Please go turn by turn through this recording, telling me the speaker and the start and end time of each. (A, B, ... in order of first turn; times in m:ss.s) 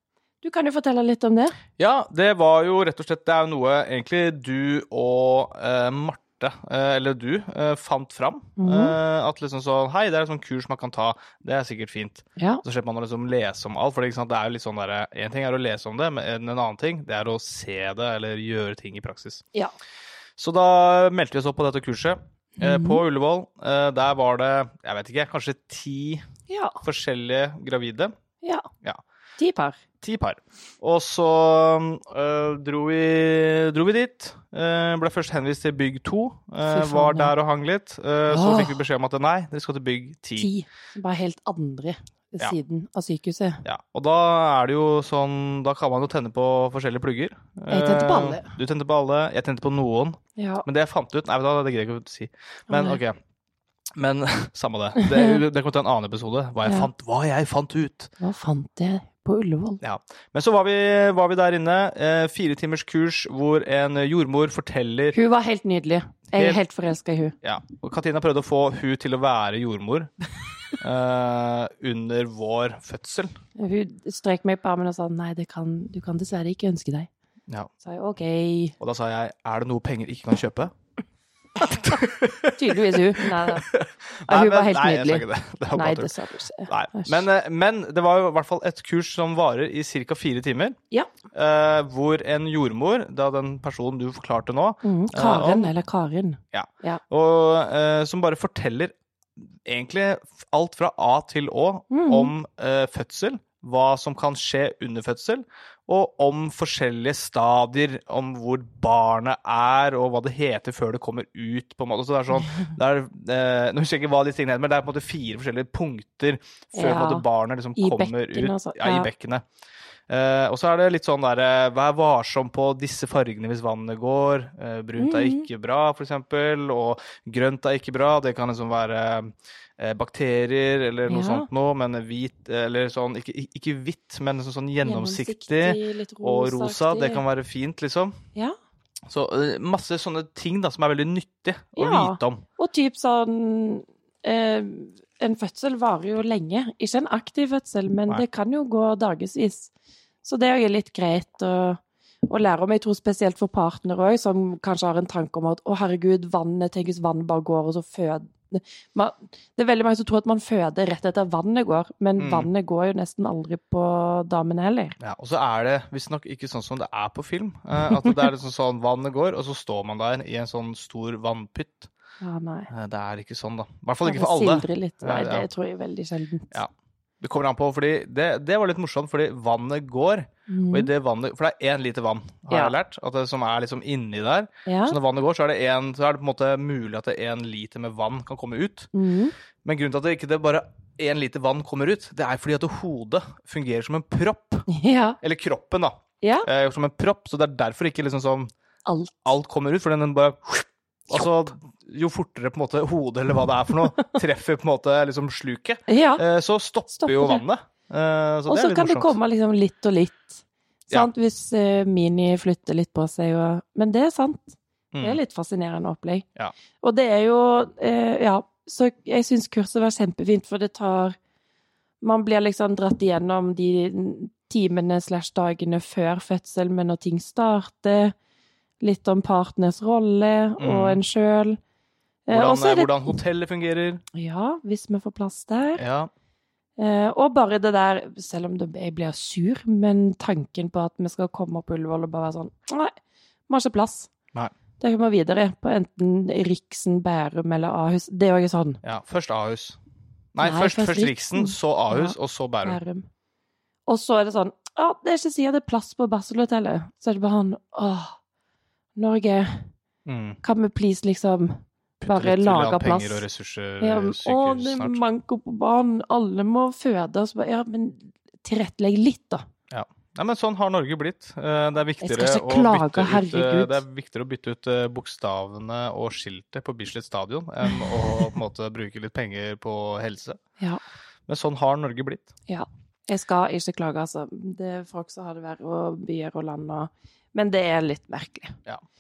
0:00.4-0:01.6 A
0:01.8-0:19.4 B
0:08.6-0:09.0 A
0:12.4-0:12.6 A
0:20.4-0:26.2 B
0:22.6-0:23.0 A
0:26.5-0:26.8 A
0:26.8-0:28.1 B
0:28.4-0:28.7 A
0:29.4-0:29.8 A
0:30.0-0:40.5 B
0:36.7-0:37.3 A
0:38.3-0:38.8 A
0:40.4-0:43.6 A
0:43.6-0:53.2 B
0:47.7-0:48.6 A
0:50.4-0:50.7 A
0:52.7-0:53.0 A
0:54.0-0:58.1 B
0:55.0-0:55.4 A
0:58.2-0:59.8 A
0:59.8-1:05.2 B
1:05.1-1:07.4 A
1:06.3-1:06.6 B
1:07.4-1:10.1 B
1:10.8-1:13.3 B
1:13.6-1:17.1 A
1:17.8-1:18.8 A
1:18.8-1:20.7 B
1:21.6-1:26.1 B
1:22.6-1:23.7 A
1:24.3-1:27.2 A
1:26.7-1:30.8 B
1:31.3-1:35.7 B
1:34.8-1:37.0 A
1:36.5-1:59.4 B
1:41.9-1:42.3 A
1:56.7-1:57.2 A
1:57.8-1:59.1 A
2:00.1-2:18.2 B
2:05.0-2:05.5 A
2:11.1-2:11.5 A
2:14.8-2:17.2 A
2:19.1-2:22.4 B
2:21.8-2:29.7 A
2:30.2-2:45.0 A
2:42.2-2:42.5 B
2:45.0-2:51.9 B
2:52.2-2:52.7 A
2:52.7-2:55.5 B
2:54.0-2:56.6 A
2:57.2-3:08.9 B
3:00.5-3:00.9 A
3:02.5-3:02.8 A
3:04.7-3:05.0 A
3:08.9-3:09.4 A
3:09.6-3:14.7 B
3:14.7-3:15.2 A
3:15.2-3:18.5 B
3:16.2-3:16.5 A
3:18.9-3:19.2 A
3:19.2-3:29.2 B
3:25.9-3:26.2 A
3:26.9-3:27.4 A
3:28.5-3:36.3 A
3:34.9-3:35.2 B
3:36.8-3:41.2 A
3:42.0-3:48.2 A
3:48.8-3:51.6 A
3:50.6-3:51.0 B
3:52.3-3:53.2 A
3:52.3-3:54.0 B
3:54.1-3:55.8 A
3:55.8-3:56.1 B
3:56.8-4:03.0 A
4:03.5-4:04.1 A
4:04.8-4:08.8 A
4:08.8-4:09.8 B
4:10.4-4:12.8 B
4:10.4-4:13.1 A
4:13.9-4:18.2 A
4:19.0-4:19.7 A
4:20.1-4:20.4 B
4:20.4-4:23.2 A
4:22.0-4:25.0 B
4:23.8-4:29.4 A
4:29.7-4:40.4 B
4:32.0-4:33.8 A
4:37.7-4:38.1 A
4:41.3-4:42.3 B
4:42.5-4:48.6 A